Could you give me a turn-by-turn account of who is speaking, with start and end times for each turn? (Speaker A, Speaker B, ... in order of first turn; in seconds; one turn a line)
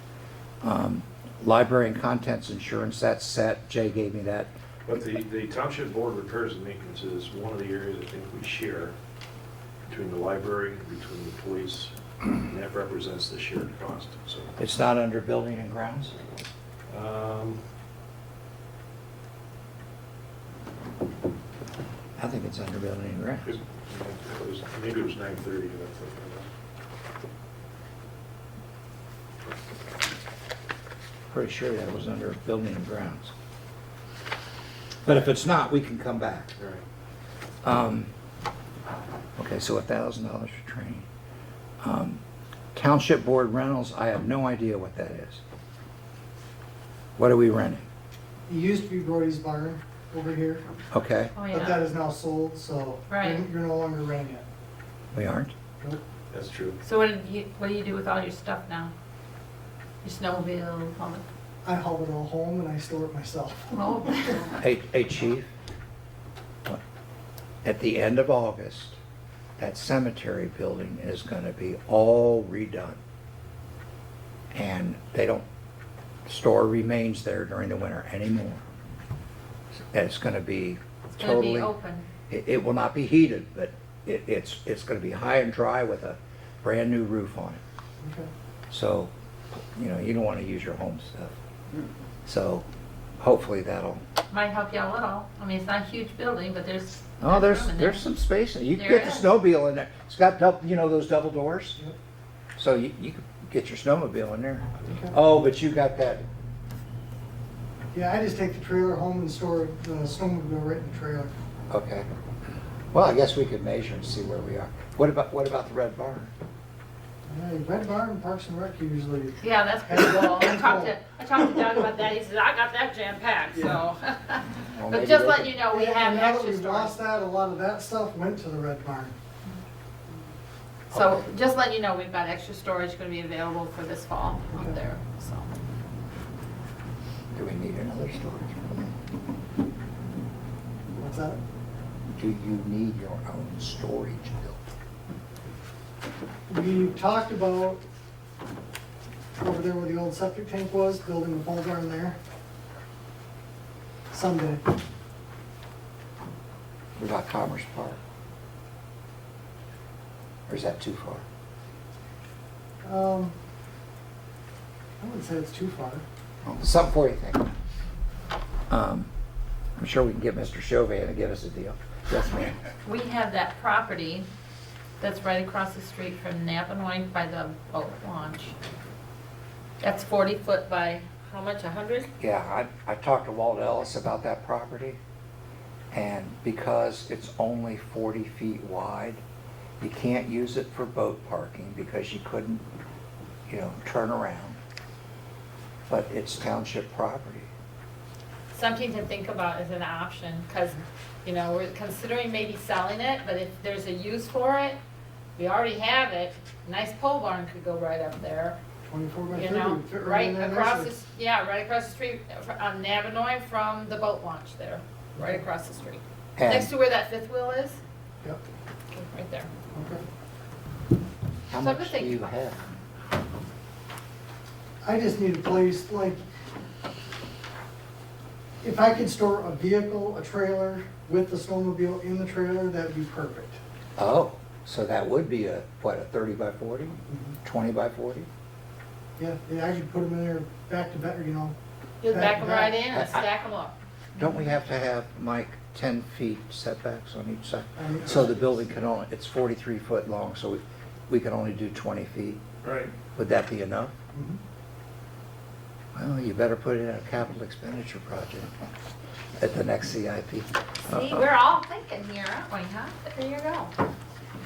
Speaker A: 0.6-4.5
Speaker B: 4.9-9.0
Speaker B: 9.9-14.6
Speaker A: 14.6-16.1
Speaker B: 16.9-17.6
Speaker A: 22.2-23.5
Speaker B: 23.5-26.5
Speaker A: 31.3-33.3
Speaker A: 35.0-36.5
Speaker B: 36.6-36.8
Speaker A: 37.6-38.1
Speaker A: 39.4-41.1
Speaker A: 41.8-42.2
Speaker A: 42.8-45.4
Speaker A: 47.2-47.9
Speaker C: 48.5-50.6
Speaker A: 50.9-51.3
Speaker D: 51.4-51.9
Speaker C: 51.5-54.5
Speaker D: 53.1-53.5
Speaker A: 55.1-55.5
Speaker B: 56.3-56.8
Speaker D: 56.8-58.9
Speaker D: 60.0-61.2
Speaker C: 61.6-64.1
Speaker D: 63.7-64.6
Speaker A: 64.6-65.5
Speaker A: 67.7-69.0
Speaker A: 69.6-73.0
Speaker A: 74.5-75.5
Speaker A: 76.3-78.6
Speaker A: 79.9-81.7
Speaker D: 81.1-82.1
Speaker A: 82.3-87.6
Speaker C: 88.0-88.3
Speaker A: 88.7-91.3
Speaker A: 92.2-92.7
Speaker A: 93.2-94.0
Speaker D: 94.3-98.0
Speaker A: 97.2-101.8
Speaker D: 98.8-99.3
Speaker A: 102.6-106.2
Speaker C: 104.9-105.2
Speaker C: 107.9-111.3
Speaker A: 111.7-112.1
Speaker A: 112.9-116.3
Speaker C: 117.3-121.0
Speaker D: 119.4-127.0
Speaker A: 124.6-125.6
Speaker C: 125.7-129.1
Speaker A: 130.9-131.2
Speaker D: 130.9-135.5
Speaker C: 134.5-134.8
Speaker A: 137.3-138.9
Speaker C: 141.0-141.4
Speaker A: 142.2-144.6
Speaker C: 146.5-147.8
Speaker C: 149.4-152.2
Speaker C: 154.1-154.7
Speaker A: 157.0-158.0
Speaker A: 160.5-161.2
Speaker C: 162.8-163.3
Speaker C: 165.0-166.1
Speaker A: 166.4-167.5
Speaker A: 168.7-169.1
Speaker A: 169.8-172.6
Speaker D: 172.8-174.3
Speaker D: 175.0-178.6
Speaker D: 179.8-182.1
Speaker A: 182.2-185.0
Speaker A: 185.9-189.2
Speaker A: 189.8-192.6
Speaker A: 193.5-194.6
Speaker A: 195.9-197.5
Speaker D: 198.5-204.8
Speaker D: 205.4-208.6
Speaker C: 208.9-210.9
Speaker D: 209.3-217.8
Speaker A: 216.4-216.7
Speaker D: 218.9-219.5
Speaker C: 219.7-220.1
Speaker A: 221.5-222.7
Speaker D: 221.6-222.3
Speaker C: 224.8-226.2
Speaker C: 228.6-233.6
Speaker A: 234.0-238.3
Speaker C: 237.1-237.3
Speaker C: 239.2-241.6
Speaker D: 242.0-243.8
Speaker C: 242.1-242.8
Speaker A: 242.9-243.3
Speaker A: 244.2-252.4
Speaker C: 247.8-248.5
Speaker B: 252.6-252.9
Speaker A: 253.1-253.9
Speaker C: 254.1-254.4
Speaker A: 255.9-258.5
Speaker A: 259.4-261.2
Speaker D: 260.9-263.8